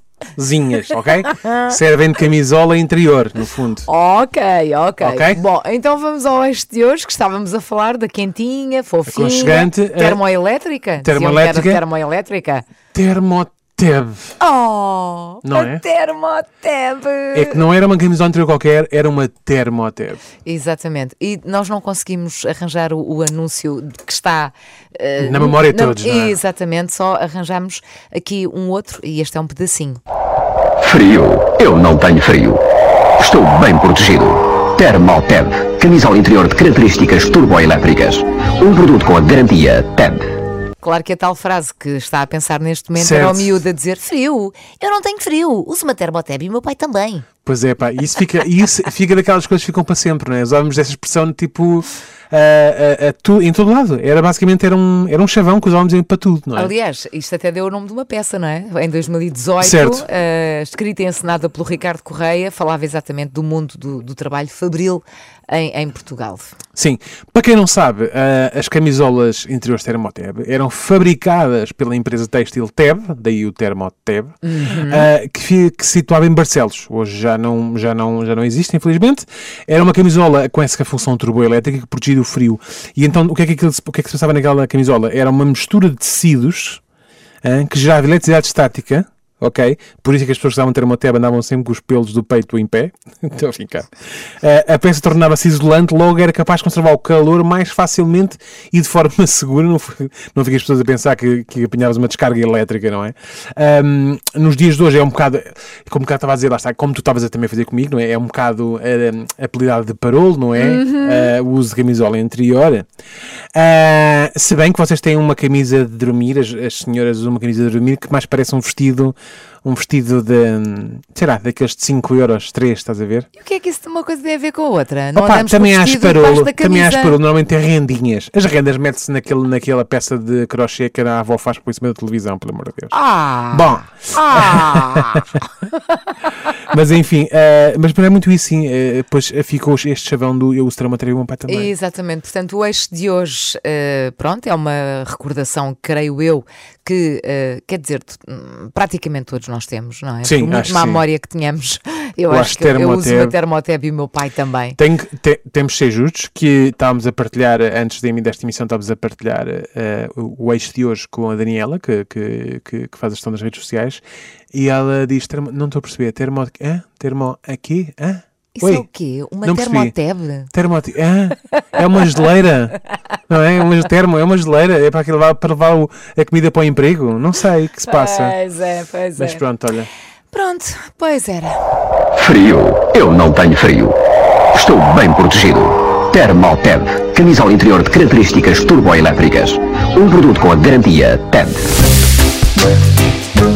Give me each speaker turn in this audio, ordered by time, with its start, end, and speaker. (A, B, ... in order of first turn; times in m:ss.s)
0:00.3-0:03.9 A
0:01.3-0:01.7 B
0:03.8-0:12.6 B
0:05.0-0:05.4 A
0:09.1-0:10.2 A
0:11.0-0:11.8 A
0:12.9-0:14.4 A
0:14.4-0:17.6 B
0:15.4-0:15.8 A
0:17.3-0:20.2 A
0:20.4-0:30.0 B
0:25.2-0:26.4 A
0:30.8-0:32.6 C
0:33.2-0:40.3 C
0:40.8-0:47.3 B
0:42.9-0:43.5 A
0:47.4-0:56.7 A
0:56.5-1:06.5 B
0:59.6-1:00.0 A
1:06.8-1:26.8 A
1:14.4-1:15.1 B
1:27.4-1:52.9 A
1:50.6-1:51.3 B
1:53.5-2:03.3 A
2:03.3-2:07.2 B
2:05.1-2:12.9 A
2:12.9-2:15.4 B
2:13.5-2:15.2 A
2:16.7-2:21.7 A
2:21.5-2:34.8 B
2:30.2-2:31.0 A
2:32.3-2:33.3 A
2:34.8-2:44.0 A
2:44.5-2:48.8 A
2:48.6-2:50.5 B
2:49.4-2:49.9 A
2:50.5-2:58.4 A
2:57.8-2:59.4 B
2:59.2-2:59.9 A
3:00.3-3:01.6 B
3:02.1-3:04.0 C
3:04.5-3:11.7 C